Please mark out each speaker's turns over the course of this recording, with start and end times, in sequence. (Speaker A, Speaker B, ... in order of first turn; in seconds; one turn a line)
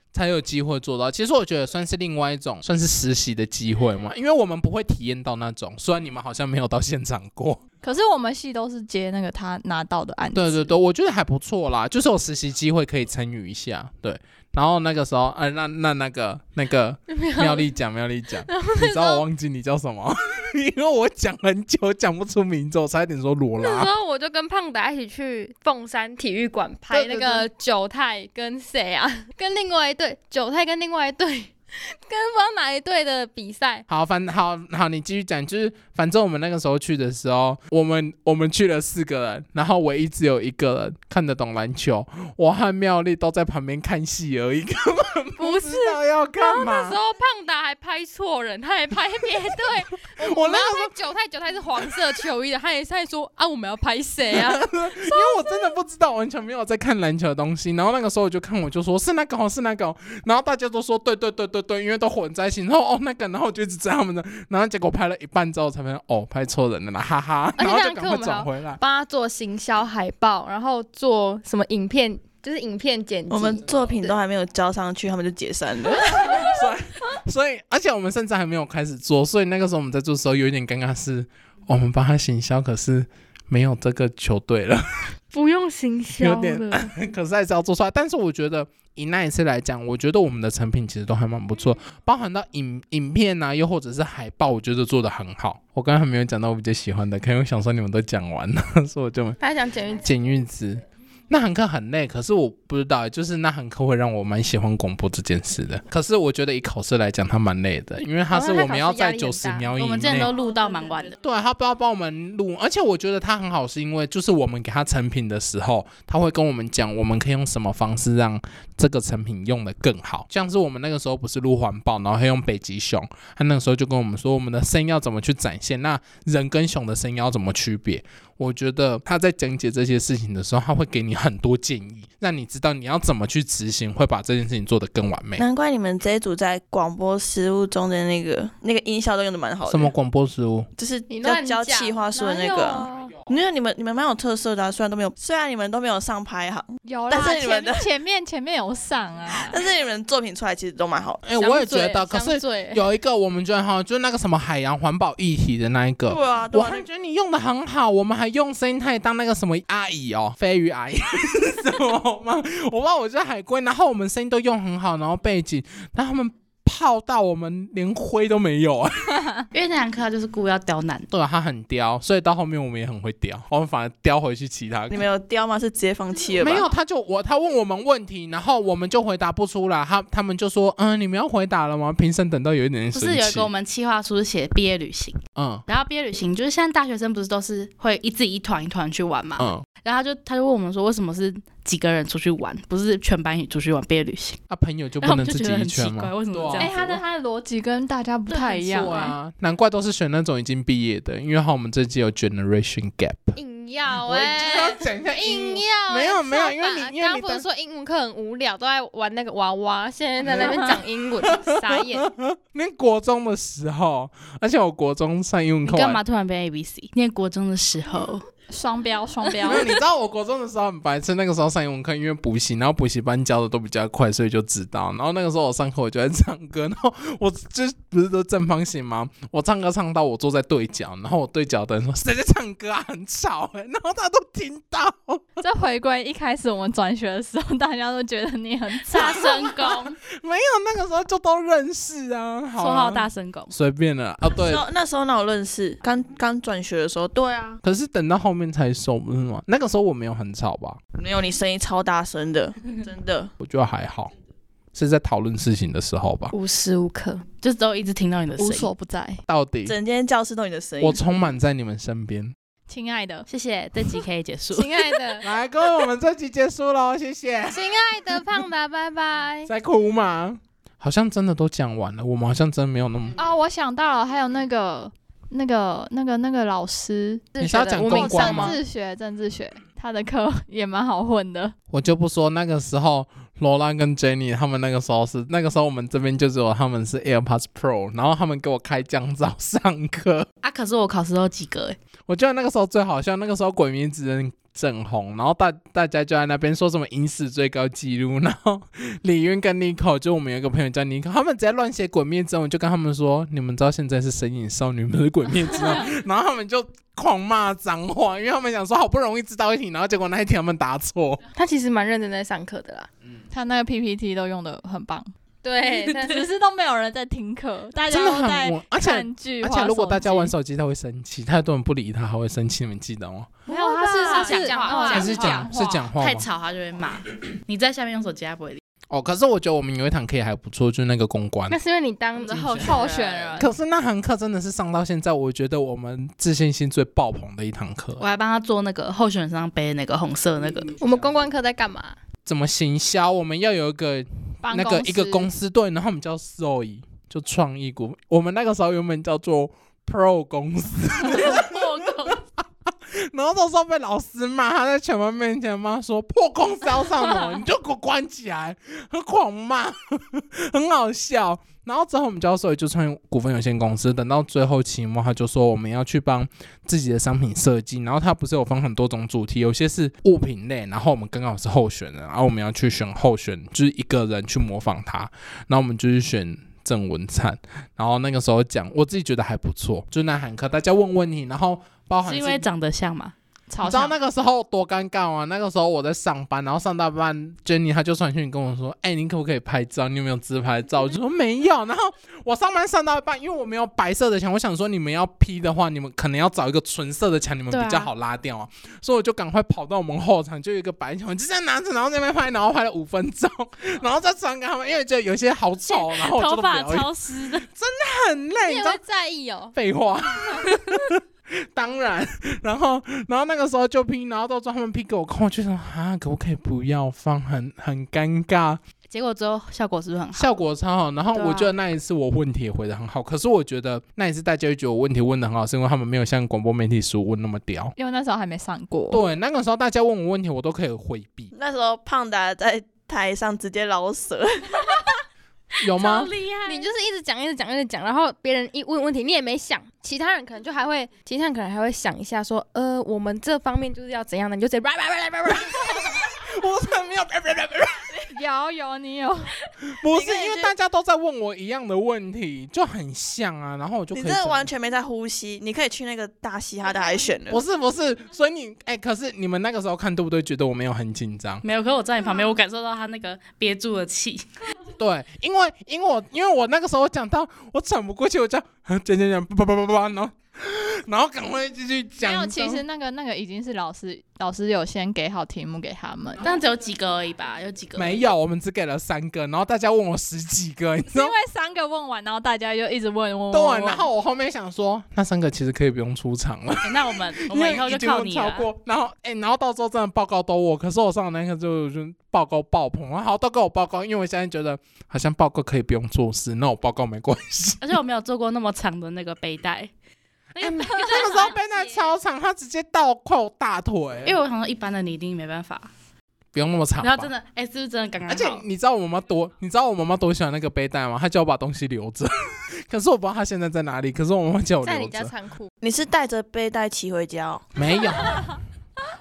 Speaker A: 0.1-7.6
Speaker B: 7.8-10.7
Speaker A: 10.3-23.9
Speaker C: 17.1-17.7
Speaker C: 18.5-19.2
Speaker C: 23.6-33.9
Speaker A: 26.9-27.4
Speaker A: 33.9-47.0
Speaker C: 45.4-55.7
Speaker A: 50.2-50.9
Speaker A: 54.3-68.8
Speaker C: 67.6-74.1
Speaker D: 73.3-76.5
Speaker C: 76.2-76.5
Speaker A: 76.3-84.8
Speaker C: 85.3-86.9
Speaker A: 86.1-99.4
Speaker C: 99.4-100.1
Speaker A: 99.9-110.3
Speaker C: 108.3-109.7
Speaker E: 109.8-111.2
Speaker A: 111.2-135.4
Speaker D: 135.4-139.9
Speaker A: 139.7-140.7
Speaker D: 140.8-147.9
Speaker C: 141.1-143.2
Speaker B: 146.8-149.6
Speaker D: 149.3-151.2
Speaker A: 151.2-169.2
Speaker C: 151.4-152.8
Speaker D: 156.1-156.8
Speaker E: 169.5-171.1
Speaker A: 171.1-175.1
Speaker D: 174.9-176.7
Speaker A: 176.4-183.5
Speaker E: 182.9-194.4
Speaker A: 185.3-185.6
Speaker A: 189.4-189.6
Speaker A: 194.5-196.8
Speaker E: 195.0-197.0
Speaker B: 196.6-199.2
Speaker E: 198.3-199.1
Speaker A: 198.7-203.4
Speaker C: 203.3-212.1
Speaker A: 204.0-207.4
Speaker A: 210.2-216.0
Speaker E: 215.7-218.2
Speaker B: 218.5-219.7
Speaker A: 219.4-235.2
Speaker B: 235.4-239.8
Speaker E: 238.8-240.0
Speaker A: 238.9-244.6
Speaker E: 242.6-243.5
Speaker D: 244.3-247.6
Speaker A: 247.6-250.8
Speaker D: 251.0-253.3
Speaker A: 253.4-254.1
Speaker A: 254.7-256.3
Speaker C: 256.3-257.2
Speaker E: 257.4-258.7
Speaker B: 258.4-259.2
Speaker A: 259.3-259.8
Speaker D: 259.6-261.0
Speaker A: 260.8-262.3
Speaker B: 262.7-263.3
Speaker E: 263.3-264.9
Speaker C: 264.5-265.2
Speaker A: 265.2-267.7
Speaker C: 267.5-269.5
Speaker A: 269.4-273.1
Speaker B: 273.2-277.3
Speaker C: 277.3-278.6
Speaker A: 277.4-278.6
Speaker B: 277.8-281.5
Speaker A: 281.7-290.3
Speaker E: 290.4-291.8
Speaker A: 292.1-311.2
Speaker C: 311.3-312.9
Speaker B: 313.3-315.1
Speaker C: 315.4-316.2
Speaker B: 315.9-320.3
Speaker A: 317.9-323.3
Speaker C: 323.5-325.4
Speaker E: 323.5-328.6
Speaker B: 323.5-325.5
Speaker A: 324.9-326.3
Speaker A: 328.9-331.6
Speaker C: 331.5-332.9
Speaker E: 332.1-333.5
Speaker B: 332.6-333.5
Speaker A: 333.4-338.0
Speaker E: 338.0-340.7
Speaker C: 340.8-342.0
Speaker A: 342.2-352.2
Speaker B: 344.4-345.3
Speaker E: 351.0-352.2
Speaker A: 352.9-382.4
Speaker E: 382.0-383.1
Speaker B: 383.5-383.9
Speaker A: 383.6-408.8
Speaker E: 397.5-397.9
Speaker E: 405.7-407.4
Speaker C: 408.4-409.5
Speaker A: 409.5-418.6
Speaker E: 418.9-420.3
Speaker A: 420.1-427.7
Speaker E: 421.1-421.5
Speaker B: 427.8-429.0
Speaker A: 428.9-431.3
Speaker D: 431.3-434.9
Speaker A: 435.6-436.1
Speaker E: 435.7-436.7
Speaker C: 436.4-445.9
Speaker A: 445.6-447.9
Speaker B: 448.1-449.3
Speaker A: 449.7-454.5
Speaker D: 449.9-450.5
Speaker D: 453.9-457.4
Speaker A: 457.3-461.4
Speaker E: 461.4-464.2
Speaker A: 464.8-472.6
Speaker B: 472.0-476.2
Speaker E: 476.2-477.9
Speaker A: 477.8-481.1
Speaker B: 480.9-483.9
Speaker A: 483.3-497.8
Speaker E: 486.6-488.5
Speaker E: 497.6-499.7
Speaker E: 500.4-501.3
Speaker A: 500.4-504.2
Speaker E: 504.0-505.7
Speaker A: 506.3-507.1
Speaker E: 506.8-508.4
Speaker A: 508.1-515.1
Speaker C: 514.6-515.5
Speaker D: 515.6-517.5
Speaker A: 517.5-518.4